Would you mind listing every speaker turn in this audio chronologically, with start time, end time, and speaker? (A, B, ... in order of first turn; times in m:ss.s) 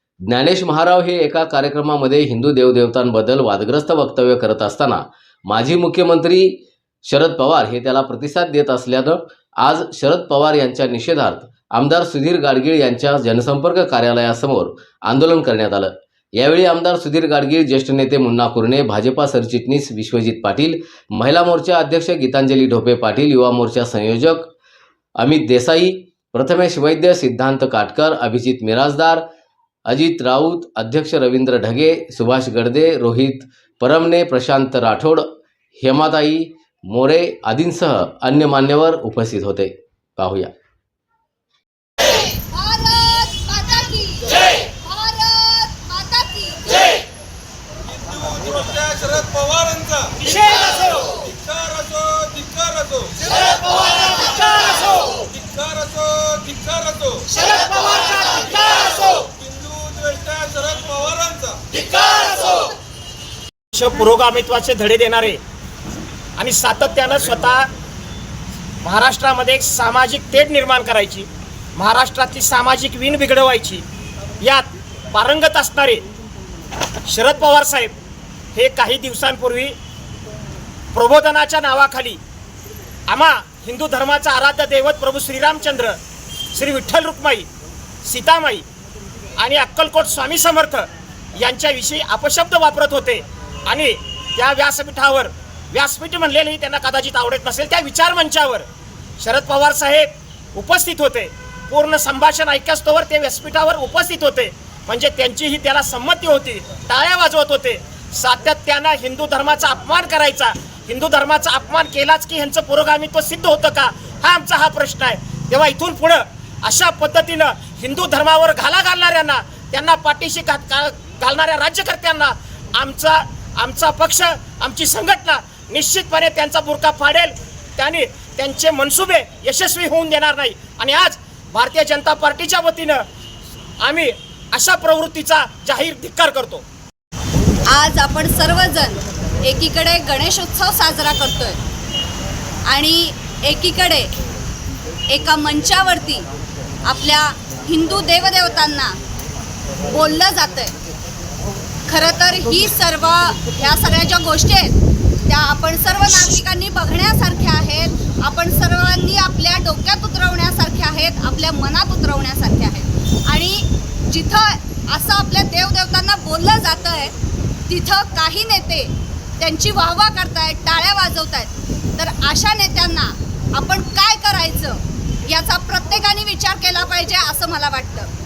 0:00.2-0:24.5 A
0:25.2-0:29.2 A
0:29.9-0:35.3 A
0:35.8-0:40.5 A
0:42.5-0:46.9 B
0:47.9-0:50.2 C
0:50.2-0:50.6 D
0:51.2-0:53.2 C
0:55.2-0:57.3 C
0:57.5-0:58.4 D
0:59.2-1:01.6 C
1:03.7-1:05.4 D
1:06.4-1:07.7 D
1:08.8-1:13.8 D
1:14.4-1:16.0 D
1:17.1-1:18.0 D
1:18.6-1:19.8 D
1:20.9-1:22.2 D
1:23.1-1:26.0 D
1:26.5-1:27.5 D
1:28.0-1:28.7 D
1:29.4-1:38.7 D
1:39.2-2:13.0 D
2:13.8-2:16.6 D
2:17.7-2:21.6 B
2:22.7-2:24.1 B
2:25.1-2:26.3 B
2:26.8-2:29.0 B
2:29.9-2:30.7 B
2:31.9-2:47.1 B
2:47.7-2:58.1 B